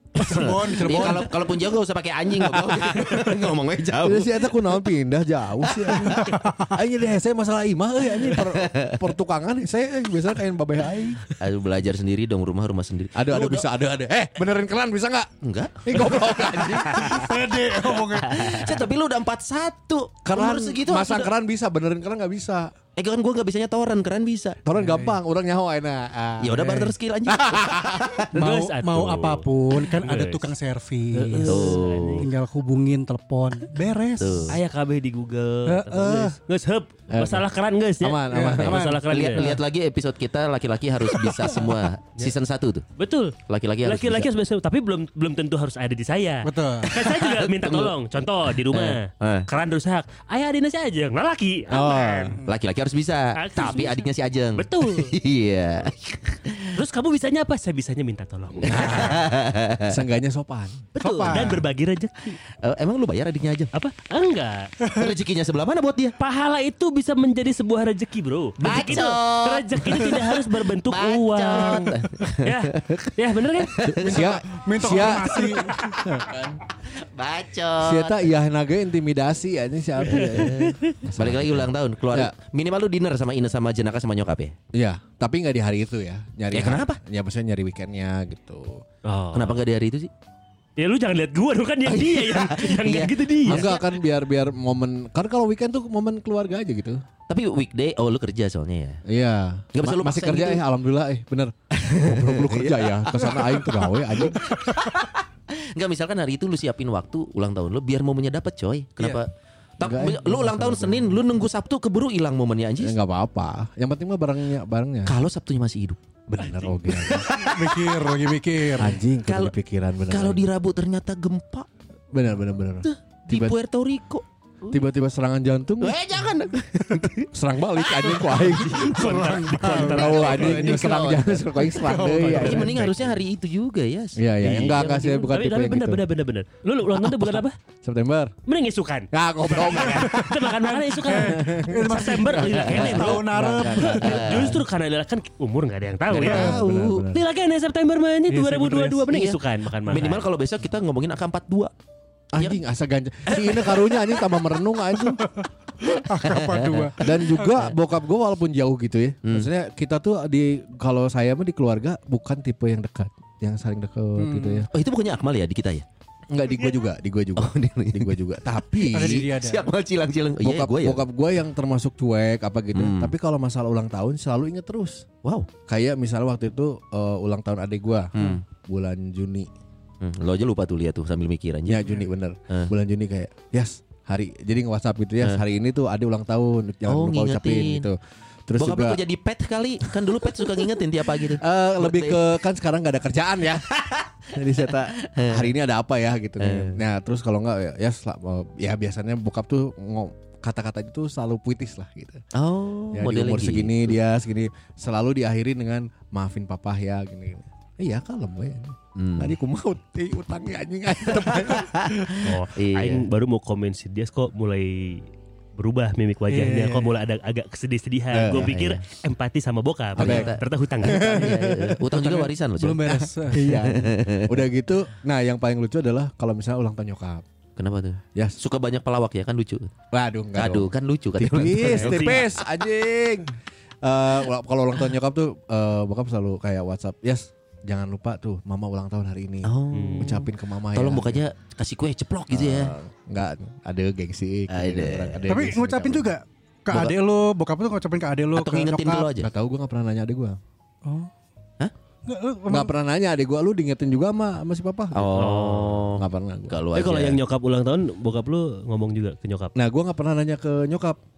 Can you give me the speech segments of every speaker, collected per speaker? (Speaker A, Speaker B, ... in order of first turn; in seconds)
Speaker A: 0.2-1.4, 6.2-6.7, 16.9-18.8, 24.8-25.1, 28.3-34.6, 35.7-36.4, 38.3-39.6, 46.4-46.9, 52.2-52.5, 61.0-61.7, 74.1-75.8, 117.3-119.0, 128.9-130.9, 131.8-132.8, 139.9-144.1, 148.3-149.0, 155.2-157.6, 164.2-164.7, 168.9-169.6, 216.3-216.9, 221.9-223.6, 245.3-249.1, 250.8-251.1, 252.1-252.7
Speaker B: 0.2-4.5, 5.8-6.1, 8.3-9.0, 11.4-13.7, 15.4-17.2, 18.3-21.3, 22.9-24.6, 26.4-28.3, 31.4-32.2, 34.2-34.5, 39.1-42.9, 43.5-44.3, 46.9-47.9, 48.7-49.5, 52.4-56.8, 58.6-60.0, 62.5-63.7, 65.0-66.1, 68.6-74.4, 77.0-78.3, 80.2-80.5, 81.2-84.5, 86.5-87.0, 89.3-90.1, 91.9-93.8, 97.3-99.0, 99.8-100.6, 101.9-113.0, 115.0-116.0, 116.9-118.1, 119.2-119.5, 120.1-121.7, 122.8-124.8, 125.8-127.3, 127.8-128.4, 129.9-131.8, 132.4-135.1, 142.7-143.3, 143.8-144.6, 146.1-147.0, 149.1-151.7, 153.3-154.0, 156.2-157.6, 164.7-165.8, 167.4-171.0, 172.7-173.1, 175.2-175.5, 178.2-178.4, 180.0-181.9, 186.9-187.9, 188.6-192.3, 193.7-194.1, 194.7-195.5, 196.4-196.8, 202.3-204.0, 208.9-209.3, 211.4-211.9, 212.5-213.0, 218.3-218.8, 220.0-224.4, 227.6-229.7, 230.3-232.2, 239.4-242.7, 244.5-245.2, 248.3-249.3, 254.9-257.2
Speaker C: 2.5-3.3, 4.0-11.2, 13.1-15.3, 15.8-17.3, 20.2-22.7, 24.6-28.3, 37.1-37.5, 38.0-39.0, 51.7-52.3, 58.7-59.2, 59.9-60.9, 73.8-76.6, 77.8-82.3, 84.7-88.8, 93.5-97.0, 99.1-104.5, 109.8-111.2, 112.8-115.1, 116.3-117.3, 118.8-120.5, 122.1-123.5, 124.7-126.0, 127.3-133.1, 134.2-136.0, 137.0-138.3, 139.1-140.5, 141.1-144.6, 146.1-147.2, 152.3-155.2, 157.0-164.7, 166.3-169.3, 170.4-175.0, 175.7-179.5, 181.7-188.0, 188.5-189.0, 191.2-193.7, 194.3-202.2, 202.9-212.3, 218.1-218.5, 219.9-221.8, 223.3-227.2, 229.9-241.2, 242.3-246.1, 249.2-250.4, 252.5-255.3, 255.9-256.6, 259.5-261.0
Speaker D: 18.2-18.6, 28.4-29.4, 30.0-30.5, 31.1-32.2, 34.5-39.5, 43.0-52.4, 53.4-54.0, 54.5-55.1, 56.7-59.2, 61.0-62.4, 63.7-64.7, 66.2-71.9, 72.4-73.7, 80.4-80.9, 89.0-89.6, 90.8-93.7, 128.5-130.8, 134.8-137.6, 138.4-150.3, 212.2-215.0, 215.6-221.0, 231.6-232.2, 239.7-240.1, 255.2-255.9, 256.7-259.5